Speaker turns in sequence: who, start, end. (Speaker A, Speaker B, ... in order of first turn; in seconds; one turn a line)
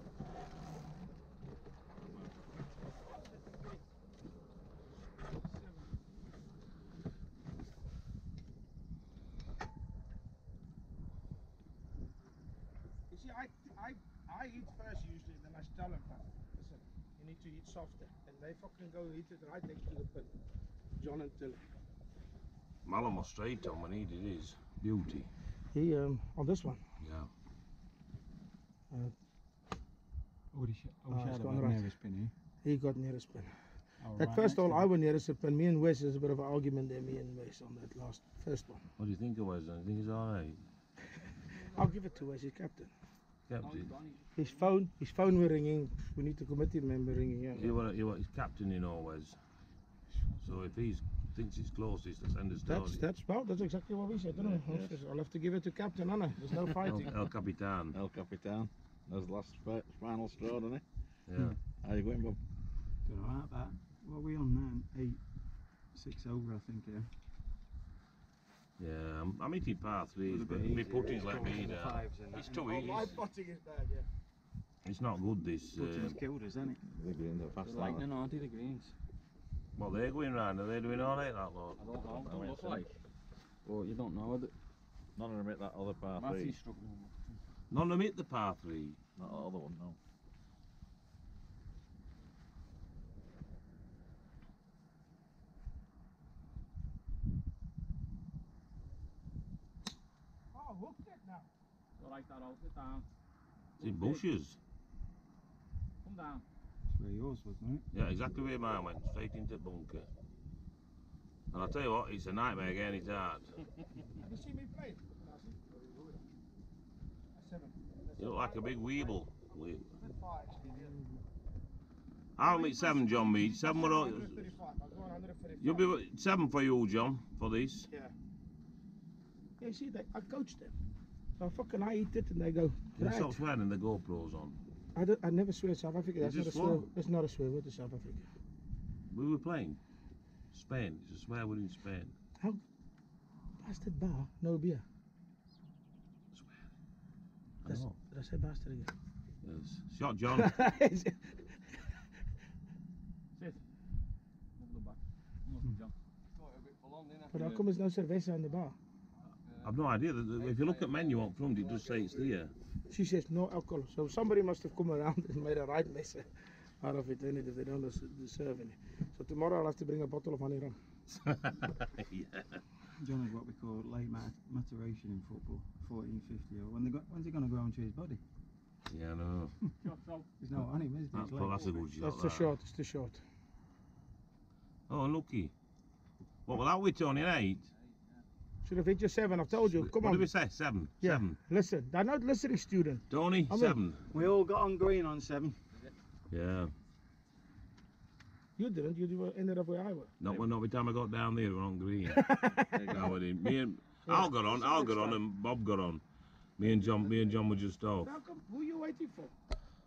Speaker A: 5.6-5.9
Speaker A: 13.1-20.3
Speaker A: 21.0-21.6
Speaker B: 22.9-25.3
Speaker A: 25.7-26.8
Speaker B: 27.0-27.3
Speaker C: 30.5-32.3
Speaker A: 31.1-31.9
Speaker A: 32.6-33.6
Speaker C: 34.0-34.9
Speaker A: 34.2-38.8
Speaker B: 39.0-40.6
Speaker A: 41.6-42.9
Speaker B: 43.5-43.9
Speaker D: 43.6-44.6
Speaker A: 44.4-47.8
Speaker B: 47.5-49.4
Speaker B: 50.4-53.0
Speaker A: 52.7-57.1
Speaker E: 54.3-55.0
Speaker B: 56.9-58.0
Speaker E: 57.9-60.8
Speaker B: 61.3-61.6
Speaker E: 61.8-62.4
Speaker C: 63.0-65.2
Speaker C: 65.9-67.1
Speaker B: 68.8-73.2
Speaker C: 70.2-73.2
Speaker A: 72.7-74.0
Speaker B: 74.8-76.2
Speaker C: 75.7-76.8
Speaker E: 76.8-78.1
Speaker D: 77.6-78.9
Speaker B: 79.8-81.8
Speaker D: 81.8-82.9
Speaker E: 82.0-82.9
Speaker C: 83.7-84.3
Speaker D: 83.9-84.5
Speaker E: 85.2-86.6
Speaker D: 86.2-87.2
Speaker B: 87.7-89.0
Speaker E: 89.2-90.0
Speaker A: 100.5-101.5
Speaker D: 102.0-103.1
Speaker D: 103.8-104.2
Speaker B: 103.8-104.6
Speaker D: 106.0-106.5
Speaker C: 106.9-107.8
Speaker B: 107.9-110.1
Speaker B: 111.5-113.6
Speaker A: 114.2-116.2
Speaker A: 117.3-119.4
Speaker B: 118.2-119.9
Speaker A: 120.0-121.0
Speaker B: 122.4-124.5
Speaker A: 122.4-126.0
Speaker B: 125.6-127.9
Speaker A: 127.9-128.1
Speaker A: 129.6-130.7
Speaker A: 131.4-133.4
Speaker B: 133.0-134.6
Speaker A: 134.9-138.3
Speaker B: 136.2-136.9
Speaker B: 139.1-139.8
Speaker B: 140.5-142.1
Speaker A: 143.6-144.8
Speaker B: 146.3-146.6
Speaker B: 147.7-148.0
Speaker A: 147.7-148.9
Speaker B: 149.4-150.6
Speaker A: 150.3-151.6
Speaker D: 154.6-155.9
Speaker D: 156.5-157.7
Speaker A: 157.3-158.8
Speaker B: 159.6-162.5
Speaker D: 160.4-161.1
Speaker A: 162.9-166.3
Speaker A: 166.8-170.8
Speaker B: 171.2-172.6
Speaker C: 173.0-178.2
Speaker B: 178.9-179.6
Speaker D: 179.8-180.3
Speaker C: 180.4-181.8
Speaker B: 181.1-182.6
Speaker D: 181.4-181.8
Speaker A: 182.0-183.2
Speaker B: 184.9-185.5
Speaker B: 186.5-187.7
Speaker A: 188.7-190.3
Speaker B: 189.5-191.4
Speaker A: 191.0-193.8
Speaker B: 193.1-194.1
Speaker C: 194.1-195.6
Speaker B: 196.3-196.7
Speaker A: 198.6-200.1
Speaker B: 200.2-202.2
Speaker A: 202.1-203.1
Speaker E: 202.7-203.1
Speaker B: 202.9-206.0
Speaker A: 204.1-205.2
Speaker B: 206.6-208.2
Speaker E: 206.7-207.3
Speaker A: 208.0-209.3